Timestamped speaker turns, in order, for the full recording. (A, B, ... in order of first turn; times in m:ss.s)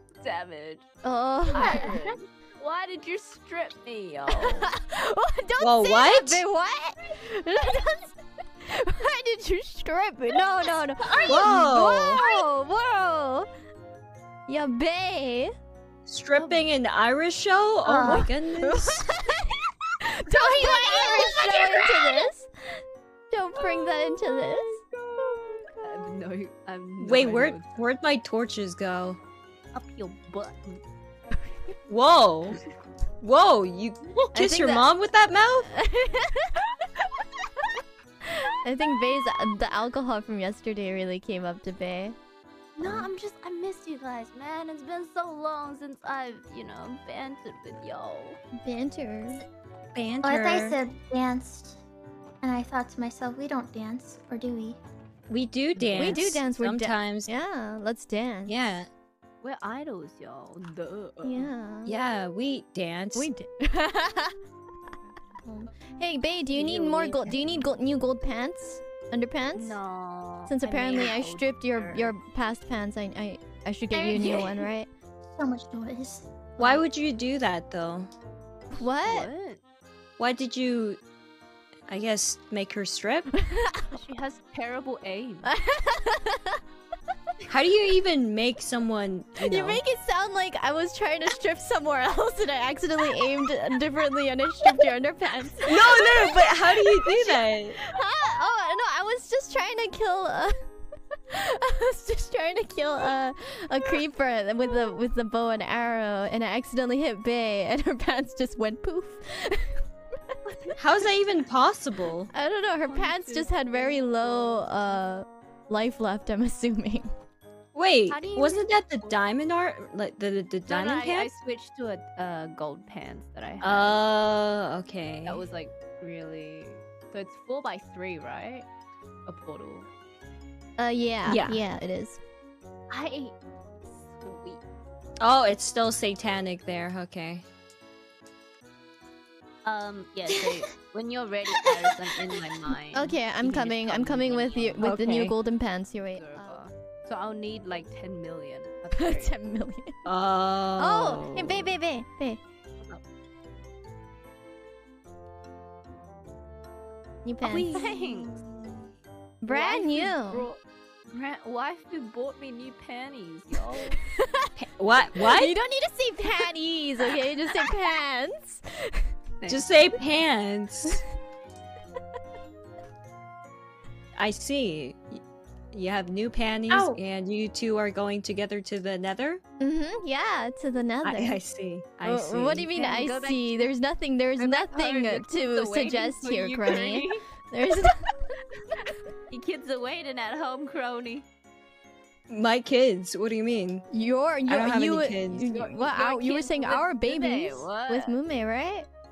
0:00.2-0:00.8 A
0:01.0-0:02.0 B
0:01.5-0:04.7 A
0:04.4-0:13.5 B
0:05.6-0:06.4 C
0:11.0-0:11.6 A
0:11.2-0:12.2 C
0:12.2-0:12.4 A
0:14.5-0:15.5 B
0:16.1-0:19.0 C
0:17.8-0:18.3 D
0:18.0-0:24.8 B
0:20.3-0:22.2 A
0:20.4-0:21.7 D
0:23.9-0:27.7 A
0:27.0-0:29.2 C
0:29.7-0:30.8 A
0:31.9-0:32.6 C
0:33.2-0:35.7 C
0:34.3-0:34.9 B
0:35.7-0:36.6 B
0:38.2-0:42.2 B
0:42.8-0:48.4 A
0:42.8-0:43.1 B
0:48.6-0:49.4 B
0:50.0-0:50.8 C
0:50.2-0:51.8 D
0:52.4-0:54.8 D
0:55.3-0:57.3 C
0:56.0-0:58.5 B
0:58.5-0:58.9 C
0:59.4-1:01.5 A
1:01.2-1:02.0 B
1:01.8-1:03.3 C
1:03.1-1:04.4 B
1:05.4-1:09.8 B
1:06.5-1:07.6 A
1:09.6-1:12.1 A
1:10.5-1:14.9 B
1:14.0-1:14.5 A
1:14.1-1:14.5 D
1:15.4-1:16.3 D
1:16.6-1:18.1 C
1:18.7-1:19.3 B
1:19.0-1:19.6 A
1:20.2-1:21.0 C
1:21.9-1:23.3 C
1:23.4-1:23.8 B
1:23.9-1:25.5 A
1:25.4-1:26.6 B
1:27.5-1:29.8 C
1:29.4-1:37.1 B
1:35.6-1:37.8 C
1:37.8-1:40.6 B
1:41.3-1:49.8 B
1:50.8-1:52.3 C
1:52.3-1:57.1 B
1:52.9-1:55.0 A
1:57.7-2:01.3 C
1:58.1-1:59.2 A
2:00.7-2:04.0 A
2:03.6-2:05.4 C
2:05.2-2:08.6 A
2:09.3-2:09.9 A
2:10.8-2:12.2 B
2:11.3-2:11.6 C
2:12.9-2:13.3 A
2:13.9-2:14.6 A
2:15.2-2:17.4 C
2:19.6-2:24.8 A
2:22.9-2:26.6 B
2:24.8-2:25.3 C
2:26.1-2:29.4 A
2:29.0-2:29.9 B
2:30.0-2:31.7 C
2:30.8-2:32.4 B
2:37.2-2:37.9 B
2:37.4-2:38.4 A
2:39.4-2:40.4 B
2:39.5-2:40.6 A
2:41.1-2:44.0 A
2:44.2-2:44.5 B
2:44.8-2:45.5 C
2:45.2-2:49.0 B
2:49.4-2:49.7 A
2:49.5-2:51.0 C
2:54.2-2:55.2 C
2:55.7-2:59.4 C
2:56.7-2:57.0 A
2:59.6-3:01.4 B
3:01.0-3:01.9 C
3:02.0-3:03.7 A
3:02.0-3:08.1 B
3:04.4-3:07.2 A
3:09.3-3:11.2 A
3:12.3-3:13.8 C
3:13.9-3:18.9 B
3:14.5-3:15.4 C
3:15.4-3:18.1 A